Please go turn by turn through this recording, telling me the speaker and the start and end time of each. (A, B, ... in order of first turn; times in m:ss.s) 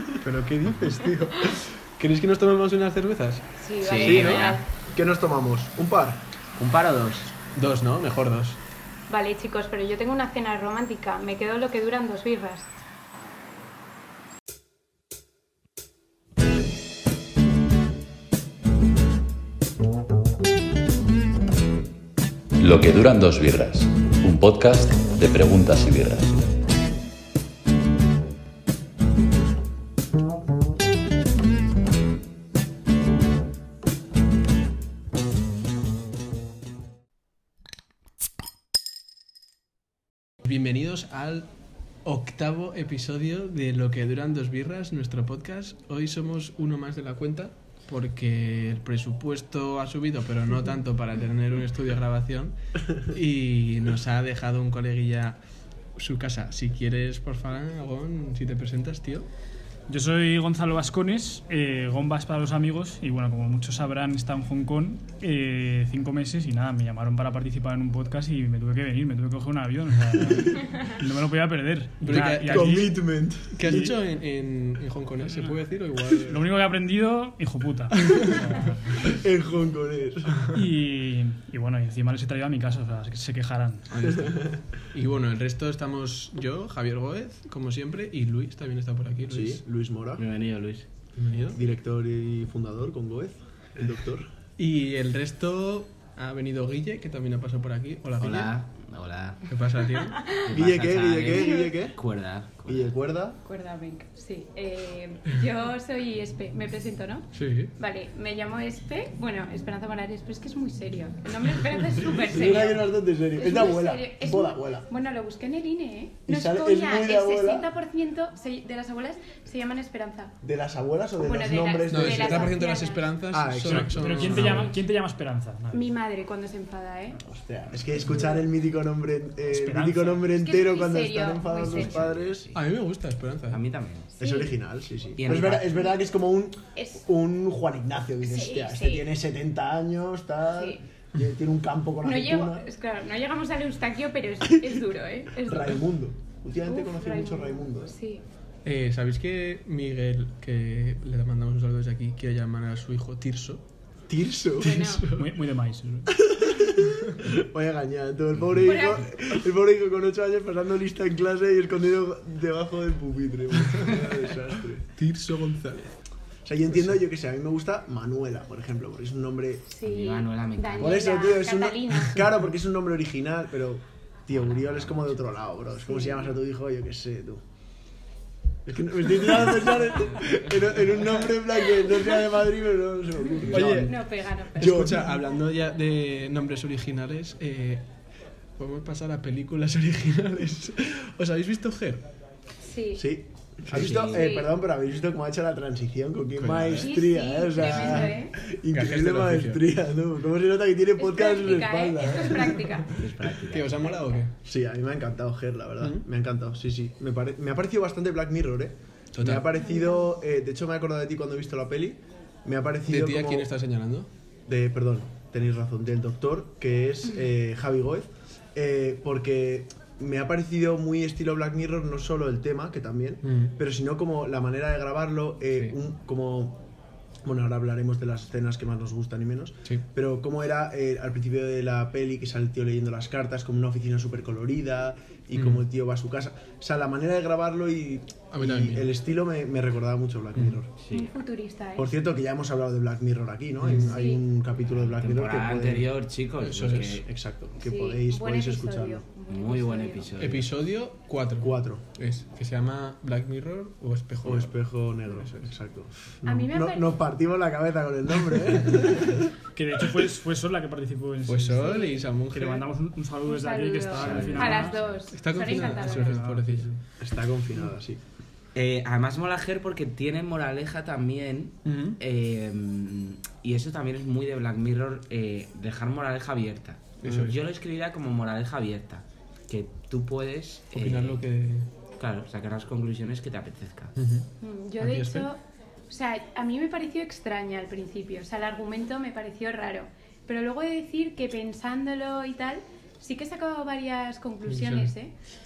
0:00.2-0:03.4 A
0:03.6-0:04.6 B
0:03.8-0:04.6 C
0:04.0-0:06.2 D
0:06.6-0:07.3 C
0:07.5-0:08.6 A
0:09.1-0:12.7 B
0:22.6-0:26.4 E
0:40.4-0:41.5 A
0:42.0-0:55.4 A
0:56.0-0:59.3 A
0:59.9-1:13.0 F
1:12.0-1:13.0 A
1:12.1-1:13.9 D
1:13.5-1:16.5 A
1:13.6-1:14.0 F
1:16.2-1:19.1 F
1:19.0-1:20.4 D
1:20.5-1:24.1 F
1:23.9-1:29.6 A
1:24.2-1:24.6 D
1:29.3-1:30.2 D
1:30.2-1:30.9 C
1:31.1-1:31.6 A
1:31.5-1:34.3 D
1:34.6-1:38.5 A
1:38.2-1:39.5 C
1:39.5-1:40.3 A
1:40.4-1:43.0 C
1:40.5-1:42.0 D
1:41.3-1:41.7 B
1:42.6-1:43.4 D
1:43.4-2:00.3 B
1:47.3-1:47.7 A
1:52.3-1:54.9 D
1:56.2-1:57.7 D
2:00.4-2:02.6 D
2:01.2-2:03.1 B
2:01.9-2:04.7 A
2:03.3-2:04.7 D
2:03.6-2:05.9 F
2:05.7-2:07.2 B
2:07.2-2:12.5 D
2:09.5-2:10.2 F
2:10.3-2:12.0 B
2:11.6-2:12.6 C
2:12.5-2:13.6 A
2:13.5-2:14.1 C
2:14.2-2:22.7 D
2:14.2-2:14.6 B
2:15.2-2:15.9 C
2:15.7-2:16.0 B
2:16.7-2:17.0 B
2:18.2-2:19.1 B
2:20.5-2:20.8 B
2:22.0-2:25.8 B
2:25.4-2:27.9 D
2:26.6-2:28.2 B
2:28.6-2:33.6 A
2:34.1-2:35.0 D
2:34.6-2:35.0 B
2:34.7-2:35.3 A
2:35.0-2:36.8 F
2:36.1-2:44.9 D
2:38.6-2:39.1 B
2:45.0-2:46.0 A
2:46.4-2:49.7 D
2:49.7-2:52.2 B
2:49.8-2:51.1 C
2:50.8-2:57.4 D
2:54.3-2:55.3 C
2:55.8-2:56.3 B
2:58.6-3:05.2 D
3:03.5-3:04.0 A
3:03.5-3:04.9 B
3:04.6-3:07.8 A
3:08.6-3:12.0 A
3:12.6-3:13.1 B
3:13.0-3:22.8 D
3:13.6-3:14.0 A
3:13.7-3:14.2 C
3:14.1-3:14.5 B
3:16.4-3:16.9 A
3:16.8-3:18.4 B
3:17.6-3:18.1 A
3:18.7-3:19.6 A
3:21.0-3:22.9 B
3:22.9-3:24.0 C
3:23.4-3:24.3 A
3:24.4-3:33.5 D
3:25.8-3:26.0 A
3:29.1-3:29.4 A
3:29.6-3:30.0 B
3:32.9-3:34.1 A
3:34.5-3:46.6 D
3:43.2-3:43.5 A
3:47.2-4:00.7 D
3:55.3-3:55.6 A
3:58.3-3:58.9 A
4:00.8-4:01.1 C
4:00.9-4:02.0 B
4:01.8-4:05.9 D
4:03.6-4:04.0 A
4:03.9-4:04.2 B
4:04.7-4:07.1 C
4:06.4-4:07.0 A
4:07.0-4:09.0 D
4:07.6-4:10.1 B
4:09.3-4:10.5 C
4:10.2-4:15.5 A
4:11.4-4:11.8 D
4:14.2-4:19.3 D
4:16.2-4:17.0 B
4:18.7-4:19.0 A
4:19.5-4:24.8 F
4:21.2-4:22.6 A
4:21.6-4:21.9 B
4:23.2-4:26.3 B
4:24.0-4:25.0 C
4:25.1-4:26.7 A
4:25.3-4:26.8 F
4:27.0-4:28.0 D
4:28.5-4:41.2 C
4:31.6-4:32.0 A
4:37.0-4:37.4 A
4:40.7-4:41.7 A
4:42.0-4:43.9 C
4:44.0-4:44.3 A
4:44.4-4:55.1 B
4:44.8-4:45.3 A
4:54.4-4:54.9 A